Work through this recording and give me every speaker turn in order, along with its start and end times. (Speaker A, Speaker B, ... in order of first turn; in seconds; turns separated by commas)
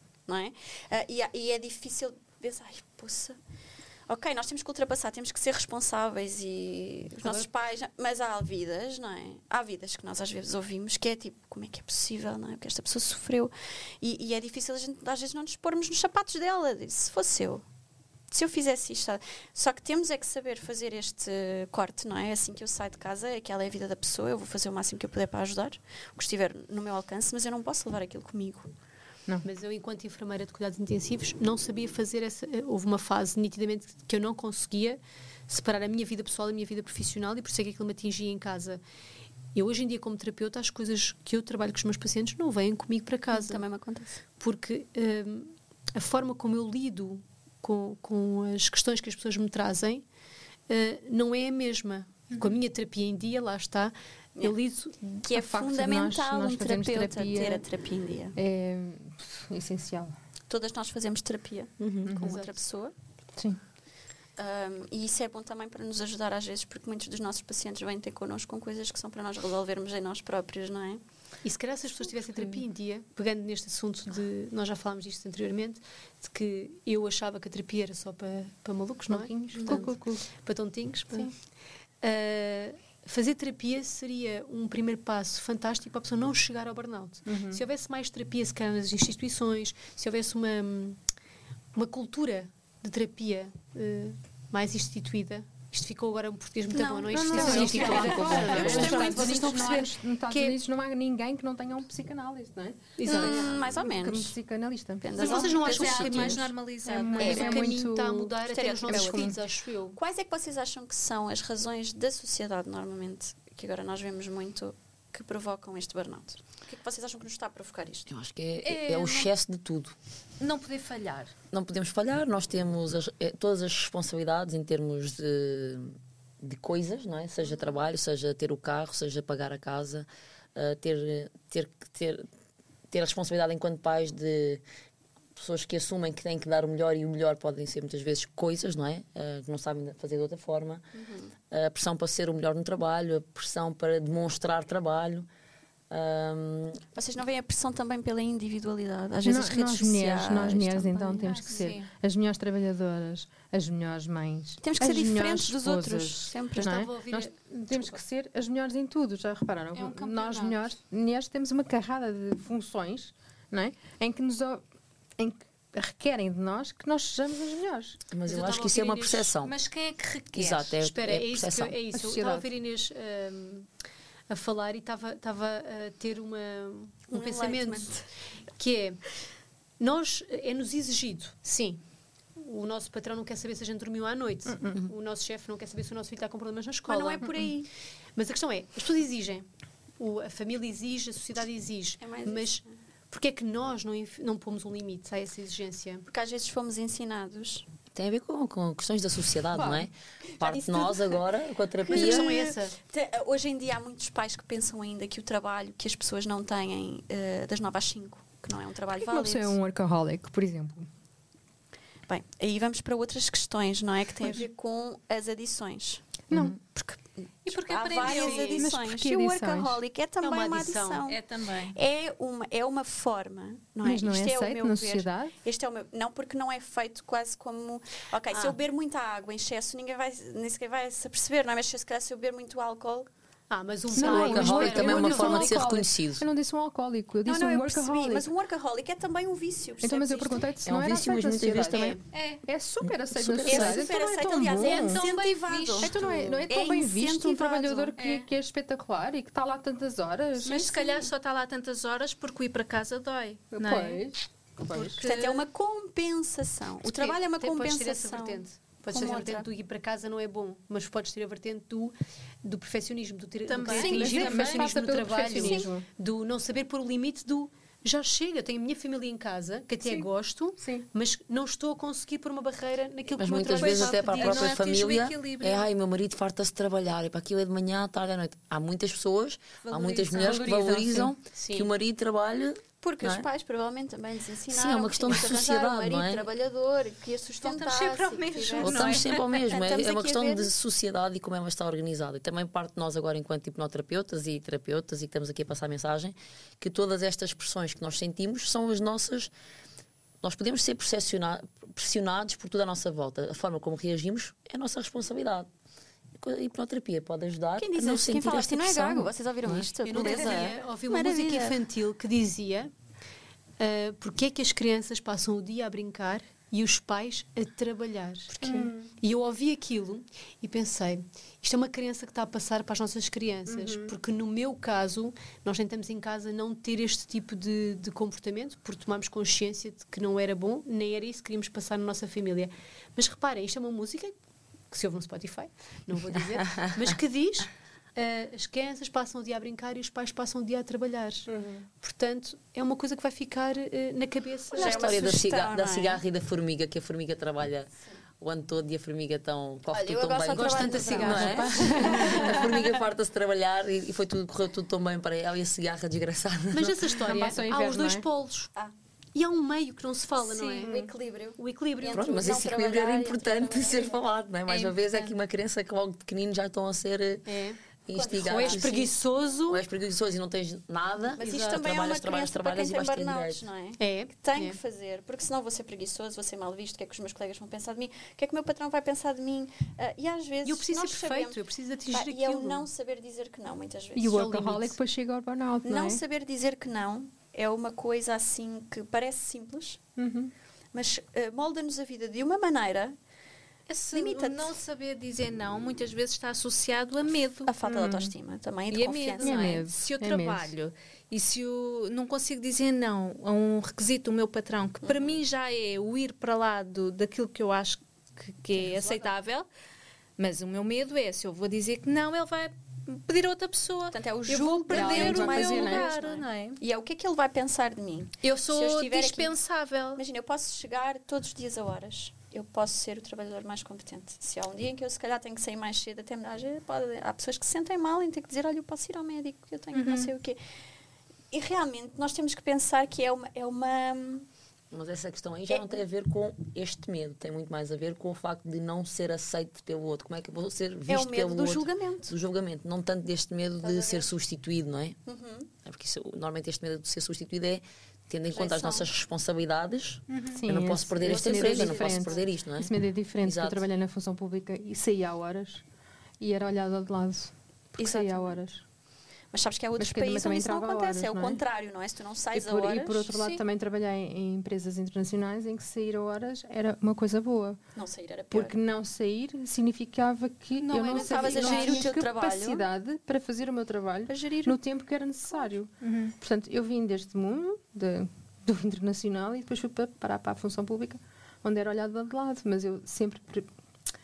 Speaker A: 0.3-3.4, Speaker A: 4.1-17.6, Speaker A: 18.3-28.7, Speaker B: 29.4-38.8, Speaker B: 39.5-43.6, Speaker A: 43.3-44.2, Speaker B: 44.4-50.0, Speaker B: 50.7-55.0, Speaker A: 54.4-58.4, Speaker C: 55.3-57.6, Speaker C: 58.4-60.1, Speaker A: 60.5-62.9, Speaker D: 61.8-62.1, Speaker C: 62.0-62.4, Speaker B: 62.2-62.5, Speaker A: 64.4-71.0, Speaker B: 71.4-81.3, Speaker C: 79.1-80.3, Speaker B: 82.0-91.0, Speaker C: 87.3-87.6, Speaker B: 91.8-100.6, Speaker A: 96.7-99.9, Speaker C: 97.1-105.1, Speaker D: 97.4-99.1, Speaker B: 103.0-103.5, Speaker A: 103.0-104.3, Speaker A: 105.0-107.8, Speaker B: 105.2-106.5, Speaker E: 105.2-107.7, Speaker C: 106.9-108.4, Speaker B: 107.1-110.0, Speaker A: 108.4-109.4, Speaker C: 108.9-109.4, Speaker A: 110.0-118.1, Speaker D: 118.1-120.0, Speaker E: 118.6-119.3, Speaker E: 120.4-121.3, Speaker D: 121.5-132.3, Speaker A: 127.4-127.8, Speaker D: 132.9-134.6, Speaker D: 135.4-140.8, Speaker A: 140.9-141.3, Speaker D: 141.5-145.3, Speaker D: 145.9-146.8, Speaker A: 146.9-151.6, Speaker C: 149.2-164.6, Speaker E: 151.2-151.9, Speaker A: 154.6-156.9, Speaker B: 156.6-157.9, Speaker E: 159.7-160.6, Speaker C: 165.2-168.0, Speaker D: 168.1-169.6, Speaker B: 168.2-169.3, Speaker E: 169.4-170.8, Speaker D: 170.3-171.8, Speaker B: 170.8-173.7, Speaker C: 171.9-172.5, Speaker B: 174.3-178.0, Speaker A: 177.1-178.1, Speaker B: 178.6-179.0, Speaker B: 179.8-181.8, Speaker B: 182.4-187.5, Speaker C: 184.5-184.8, Speaker A: 186.9-187.7, Speaker B: 188.2-189.5, Speaker B: 190.0-196.1, Speaker A: 192.0-192.7, Speaker A: 196.1-197.7, Speaker D: 197.9-202.3, Speaker C: 199.5-199.9, Speaker A: 200.3-201.2, Speaker A: 201.8-209.6, Speaker B: 201.9-202.8, Speaker C: 208.9-210.9, Speaker A: 212.1-233.1, Speaker C: 216.3-216.6, Speaker E: 217.4-218.7, Speaker B: 218.0-218.6, Speaker C: 218.6-219.8, Speaker B: 220.2-221.0, Speaker E: 221.1-221.8, Speaker C: 223.8-225.3, Speaker B: 233.5-235.6, Speaker C: 233.9-238.3, Speaker D: 233.9-236.2, Speaker A: 237.3-240.5, Speaker C: 239.8-245.0, Speaker D: 240.7-242.0, Speaker E: 242.1-242.4, Speaker D: 242.8-243.9, Speaker A: 243.4-246.0, Speaker E: 244.6-246.4, Speaker C: 245.8-251.1, Speaker A: 246.5-247.9, Speaker E: 248.0-248.3, Speaker E: 250.4-254.0, Speaker C: 253.5-255.0, Speaker E: 254.7-255.4, Speaker A: 255.0-259.5, Speaker B: 256.8-274.5, Speaker E: 263.5-265.2, Speaker C: 263.6-265.9, Speaker A: 265.4-265.7, Speaker C: 270.6-270.9, Speaker D: 273.2-283.3, Speaker E: 273.5-275.7, Speaker E: 279.6-281.1, Speaker B: 281.3-281.7, Speaker A: 282.8-290.5, Speaker D: 284.5-286.3, Speaker E: 287.4-289.4, Speaker D: 288.6-299.3, Speaker D: 300.2-305.5, Speaker D: 306.2-309.7, Speaker A: 307.6-311.6, Speaker B: 309.9-312.7, Speaker B: 313.6-334.1, Speaker C: 318.4-318.9, Speaker C: 323.5-323.9, Speaker B: 334.7-345.2, Speaker C: 341.3-341.7, Speaker A: 344.5-346.0, Speaker D: 344.6-357.0, Speaker A: 349.7-352.7, Speaker B: 350.3-352.4, Speaker B: 356.5-358.5, Speaker C: 357.0-358.1, Speaker B: 359.1-360.7, Speaker E: 360.3-360.7, Speaker A: 360.6-364.0, Speaker C: 360.6-360.9, Speaker B: 361.4-362.4, Speaker D: 361.9-367.3, Speaker E: 364.5-365.2, Speaker B: 367.3-367.6, Speaker D: 367.9-368.9, Speaker A: 367.9-368.9, Speaker B: 368.2-369.6, Speaker D: 369.5-373.4, Speaker A: 371.2-384.3, Speaker B: 373.8-374.6, Speaker B: 380.4-382.7, Speaker C: 384.0-386.0, Speaker B: 384.1-384.8, Speaker A: 385.6-389.8, Speaker C: 390.0-390.3, Speaker A: 390.7-393.0, Speaker E: 393.7-397.5, Speaker A: 393.9-394.6, Speaker A: 397.4-399.6, Speaker C: 397.6-398.1, Speaker E: 398.7-409.5, Speaker C: 399.2-400.5, Speaker A: 404.8-405.2, Speaker A: 408.6-409.1, Speaker E: 410.2-416.6, Speaker A: 413.9-419.4, Speaker C: 414.7-415.9, Speaker E: 418.2-420.0, Speaker A: 419.9-430.4, Speaker E: 429.7-430.1, Speaker A: 431.3-434.3, Speaker D: 434.7-445.0, Speaker A: 435.5-435.8, Speaker A: 440.9-442.1, Speaker A: 443.6-444.1, Speaker A: 445.1-445.5, Speaker D: 445.6-452.7, Speaker A: 448.3-448.9, Speaker E: 450.1-450.4, Speaker C: 450.3-455.6, Speaker A: 451.0-452.3, Speaker D: 453.2-453.6, Speaker C: 456.2-458.6, Speaker A: 457.8-458.4, Speaker A: 459.3-463.1, Speaker C: 459.8-461.4, Speaker C: 462.3-467.6, Speaker E: 463.1-463.4, Speaker A: 467.8-468.6, Speaker C: 468.3-483.5, Speaker E: 470.6-471.9, Speaker A: 470.9-472.7, Speaker A: 474.1-474.6, Speaker E: 475.8-476.1